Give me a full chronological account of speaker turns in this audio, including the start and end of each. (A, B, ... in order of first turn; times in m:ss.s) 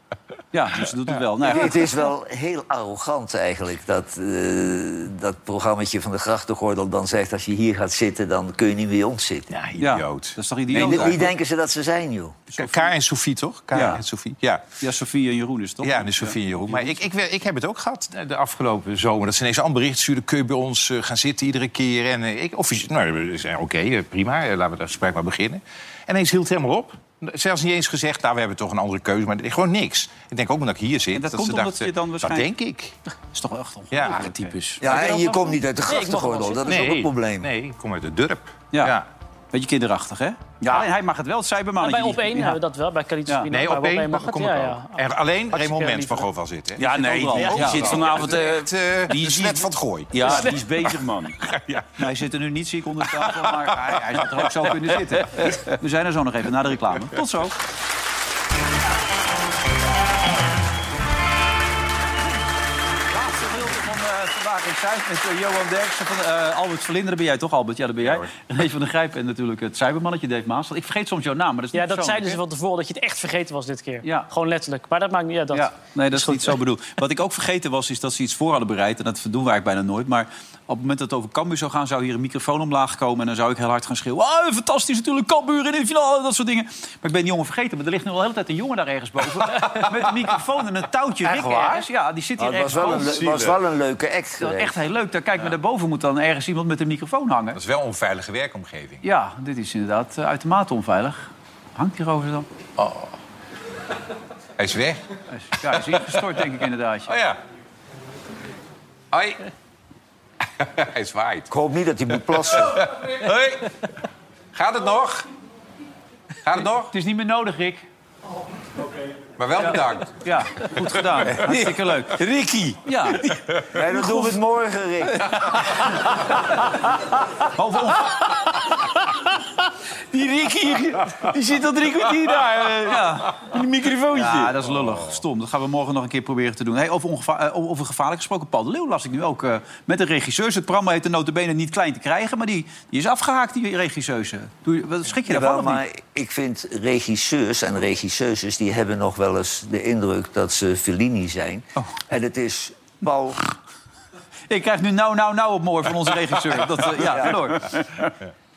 0:00.5-0:02.0 A
0:01.4-0:09.5 B
0:09.5-0:11.2 C
0:09.8-0:11.3 A
0:10.7-0:12.4 B
0:12.5-0:12.9 A
0:12.6-0:14.7 C
0:13.7-0:14.0 A
0:14.8-0:17.0 A
0:15.8-0:33.0 C
0:31.1-0:32.5 A
0:33.3-0:35.2 A
0:33.9-0:34.2 C
0:34.1-0:34.9 D
0:34.8-0:37.5 B
0:35.8-0:37.1 E
0:36.7-0:39.1 C
0:39.5-0:42.6 A
0:40.6-0:40.9 D
0:41.8-0:46.3 E
0:43.5-0:51.9 C
0:46.8-0:48.2 A
0:46.8-0:51.4 D
0:52.0-0:57.6 A
0:53.1-0:55.0 C
1:03.2-1:12.4 A
1:08.0-1:08.3 C
1:11.7-1:16.6 E
1:15.5-1:33.2 A
1:31.3-1:31.8 B
1:32.4-1:34.8 B
1:32.7-1:33.6 C
1:34.4-1:37.6 A
1:37.5-1:39.0 C
1:39.0-1:42.5 A
1:42.8-1:43.1 C
1:44.6-1:45.0 C
1:45.3-1:47.1 A
1:45.6-1:46.4 C
1:47.1-1:47.4 C
1:49.1-1:49.5 C
1:50.5-1:51.5 C
1:51.5-1:52.9 B
1:52.3-1:53.9 C
1:54.5-1:55.3 C
1:56.4-1:56.9 C
1:56.9-1:57.8 A
1:59.4-2:00.2 C
1:59.6-2:02.2 A
2:01.4-2:03.4 D
2:02.9-2:03.4 A
2:03.7-2:05.4 B
2:07.5-2:08.2 A
2:10.1-2:14.6 D
2:12.9-2:13.5 A
2:14.1-2:25.8 A
2:25.2-2:33.4 B
2:34.5-2:38.1 A
2:37.0-2:37.4 B